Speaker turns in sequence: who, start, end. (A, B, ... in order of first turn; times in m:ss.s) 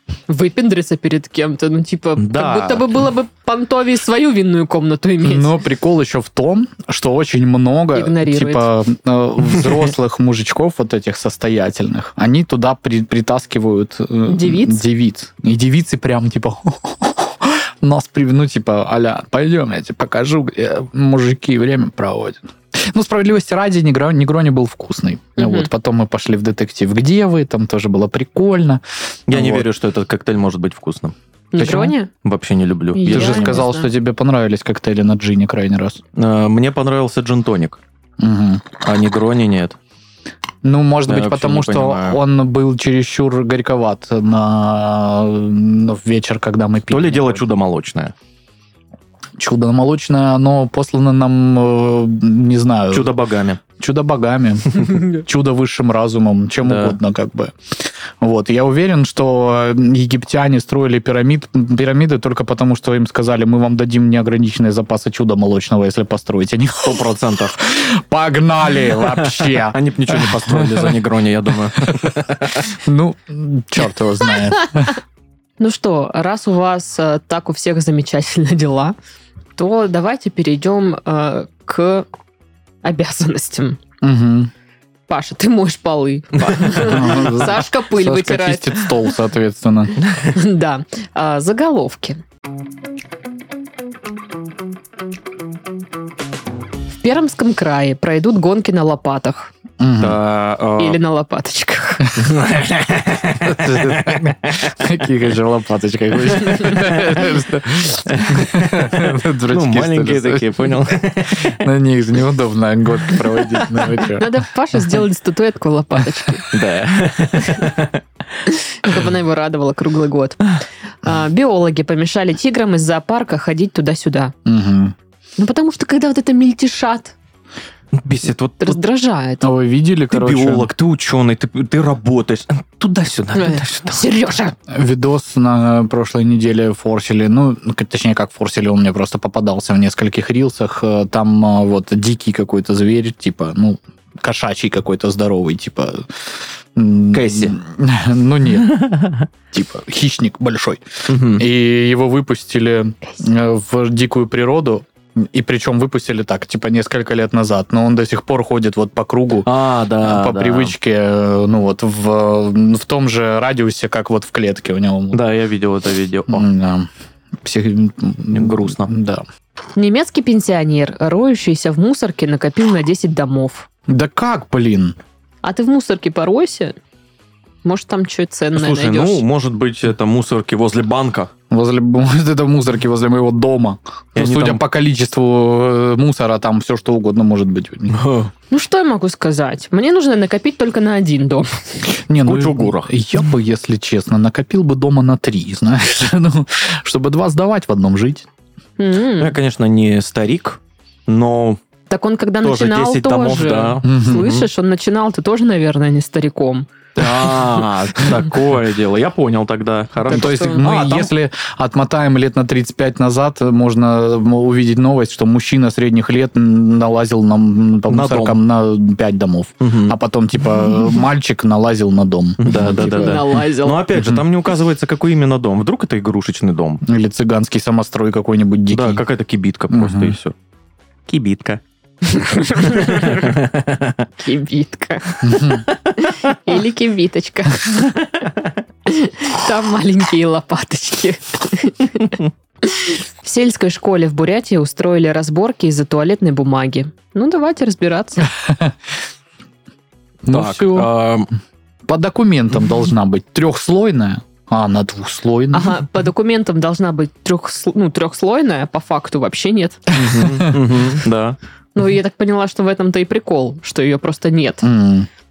0:00.3-0:05.6 A
0:02.2-0:03.0 B
0:05.2-0:29.7 C
0:07.9-0:08.7 A
0:14.2-0:14.8 A
0:25.4-0:25.7 A
0:29.3-0:33.6 B
0:31.5-0:32.1 A
0:32.9-0:33.9 A
0:33.1-0:36.0 C
0:36.1-0:37.8 B
0:38.2-0:38.7 C
0:38.8-0:39.8 B
0:40.6-0:47.4 C
0:41.1-0:42.2 B
0:46.9-0:48.1 B
0:49.4-0:53.1 C
0:52.9-0:53.6 B
0:53.8-1:11.0 C
0:56.6-0:57.0 B
1:06.8-1:07.6 B
1:09.0-1:12.7 B
1:11.8-1:12.1 C
1:12.6-1:15.0 C
1:15.6-1:19.0 A
1:19.6-1:22.1 A
1:22.8-1:23.8 A
1:24.0-1:24.5 C
1:25.1-1:28.9 A
1:26.8-1:30.0 C
1:30.3-1:32.2 A
1:37.0-1:39.5 A
1:39.8-1:40.2 C
1:40.0-1:41.0 B
1:40.8-1:42.1 A
1:42.1-1:42.5 C
1:42.2-1:44.6 B
1:43.4-1:50.5 C
1:46.4-1:47.2 B
1:48.0-1:51.6 B
1:51.3-1:54.3 C
1:54.1-1:56.5 A
1:56.5-1:58.0 B
1:58.5-2:04.3 A
2:04.4-2:04.9 C
2:05.4-2:07.1 A
2:07.9-2:08.8 B
2:08.6-2:09.5 A
2:09.4-2:10.7 C
2:10.1-2:14.0 B
2:13.3-2:14.5 A
2:14.7-2:26.1 C
2:26.7-2:28.8 C
2:27.1-2:27.5 B
2:28.6-2:29.3 B
2:29.5-2:39.5 C
2:31.1-2:31.4 B
2:39.4-2:40.7 B
2:40.0-2:45.2 C
2:45.1-2:46.4 B
2:46.3-2:46.9 C
2:47.4-2:49.2 C
2:48.3-2:48.9 B
2:49.8-2:53.7 A
2:53.9-2:55.0 C
2:55.4-2:56.8 A
2:57.6-2:59.2 A
2:58.5-3:01.3 B
3:01.5-3:08.0 C
3:04.1-3:04.6 B
3:07.9-3:08.3 B
3:08.5-3:11.7 A
3:11.9-3:18.2 C
3:12.2-3:12.9 B
3:18.8-3:19.4 A
3:19.2-3:21.6 B
3:21.9-3:26.7 A
3:22.4-3:24.4 B
3:23.8-3:24.3 C
3:27.0-3:31.1 B
3:30.1-3:30.6 A
3:30.1-3:43.2 C
3:37.9-3:38.4 B
3:39.6-3:39.9 B
3:42.4-3:46.8 B
3:42.6-3:43.9 A
3:43.9-3:44.2 C
3:46.8-3:49.0 C
3:48.7-3:50.3 B
3:49.7-3:50.2 C
3:51.1-3:51.6 B
3:52.0-3:53.4 A
3:52.6-3:54.1 B
3:54.2-3:57.9 A
3:55.2-3:55.6 C
3:55.5-3:56.1 B
3:58.8-4:08.3 A
4:08.3-4:08.7 C
4:10.2-4:10.9 C
4:10.3-4:11.3 B
4:11.9-4:15.8 C
4:15.5-4:19.9 A
4:19.9-4:21.4 B
4:20.0-4:20.6 C
4:21.7-4:24.7 A
4:24.6-4:25.1 C